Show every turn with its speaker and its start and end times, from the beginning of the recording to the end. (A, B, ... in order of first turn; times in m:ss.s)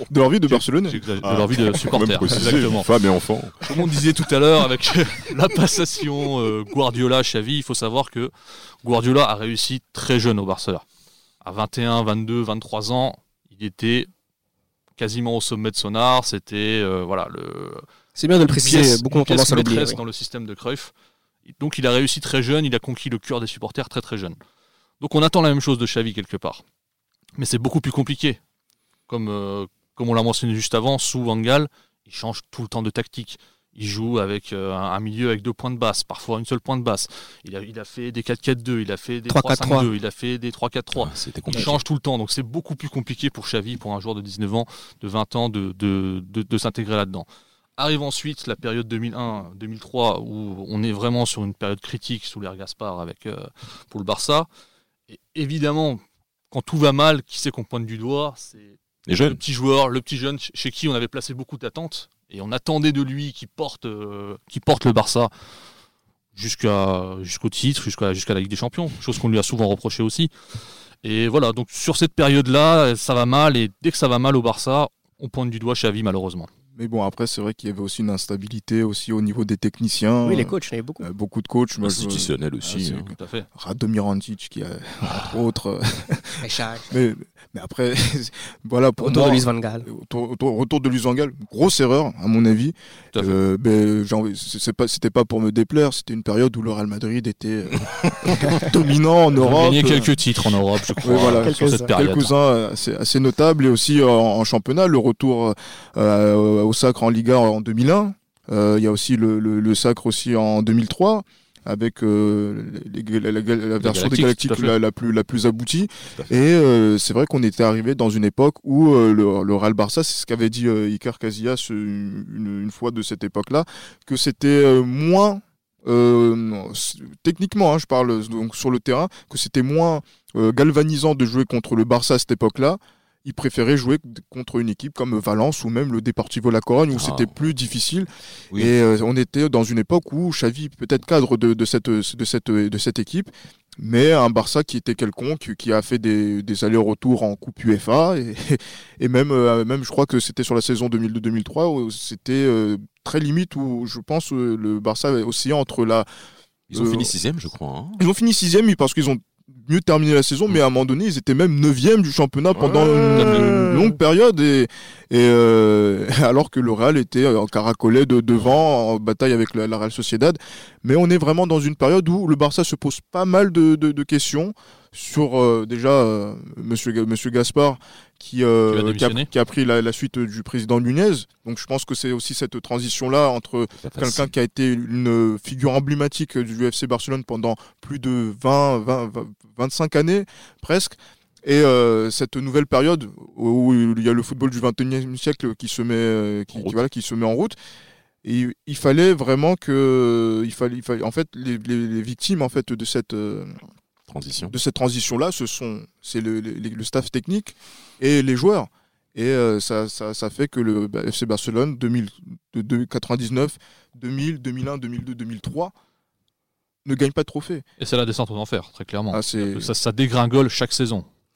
0:00.1-0:01.0 A
0:00.5-0:02.9 B
0:01.2-0:03.6 C
0:03.6-0:08.3 B
0:08.8-0:10.8 B
0:11.4-0:14.1 B
0:15.0-0:17.8 B
0:18.2-0:20.0 D
0:18.4-0:20.9 B
0:21.5-0:24.4 B
0:25.0-0:26.6 B
0:27.4-0:28.4 B
0:29.1-0:54.5 B
0:39.3-0:39.9 D
0:41.0-0:41.8 C
0:55.1-1:05.3 B
0:59.1-0:59.4 C
1:06.4-1:10.3 B
1:11.0-1:16.5 B
1:16.8-1:40.1 A
1:20.2-1:21.1 D
1:21.8-1:23.1 C
1:23.1-1:23.5 B
1:26.4-1:26.9 D
1:29.0-1:29.9 D
1:39.4-1:42.3 B
1:41.0-2:36.1 A
1:41.2-1:41.8 D
1:53.8-1:54.8 B
2:16.9-2:17.3 C
2:36.7-2:38.0 C
2:36.8-2:37.1 A
2:38.0-3:17.6 A
2:43.1-2:43.9 B
2:58.7-2:59.3 B
3:03.8-3:04.3 C
3:18.2-3:23.6 A
3:24.1-3:24.5 C
3:24.5-3:35.7 A
3:36.8-3:37.6 A
3:37.8-3:41.1 B
3:39.1-3:39.7 A